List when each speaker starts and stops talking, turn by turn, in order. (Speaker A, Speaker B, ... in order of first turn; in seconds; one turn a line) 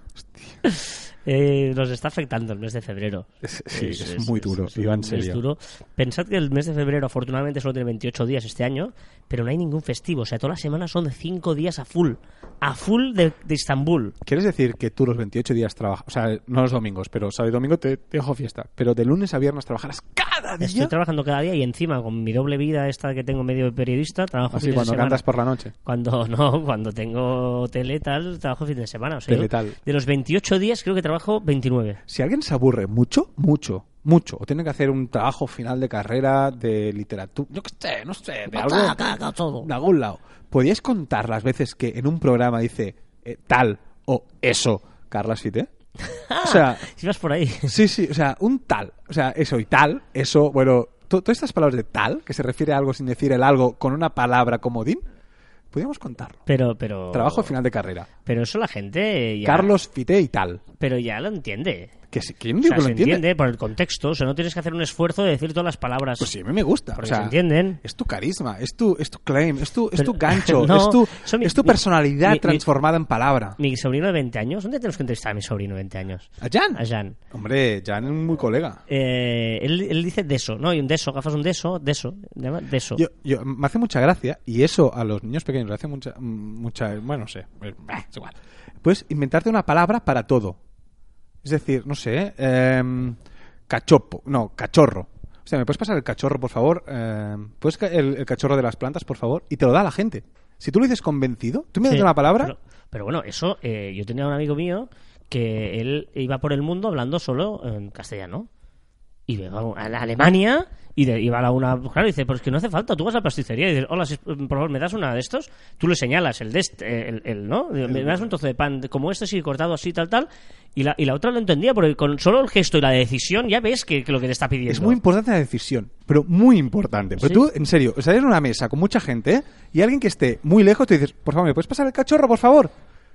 Speaker A: 0.2-0.5
Speaker B: 0.6-14.2
Speaker A: 3.4-5.4
Speaker A: 14.2-20.9
Speaker B: 20.6-25.2
Speaker A: 24.5-25.7
Speaker B: 25.9-32.0
Speaker A: 29.3-29.8
Speaker A: 32.1-39.0
Speaker B: 38.5-39.7
Speaker A: 39.6-45.7
Speaker B: 46.0-47.8
Speaker A: 46.4-46.9
Speaker A: 47.6-55.0
Speaker A: 55.7-56.4
Speaker B: 56.5-57.5
Speaker A: 57.1-58.1
Speaker B: 58.3-59.7
Speaker A: 59.4-60.6
Speaker B: 60.8-61.9
Speaker A: 62.1-63.2
Speaker B: 62.6-66.3
Speaker A: 66.2-73.6
Speaker B: 67.0-67.8
Speaker B: 70.0-72.6
Speaker B: 73.6-77.2
Speaker A: 76.4-78.8
Speaker B: 78.9-83.0
Speaker A: 83.0-90.6
Speaker A: 91.4-93.2
Speaker A: 93.7-102.5
Speaker B: 101.9-108.5
Speaker B: 109.3-125.0
Speaker A: 117.9-118.3
Speaker A: 124.7-132.7
Speaker B: 127.2-127.5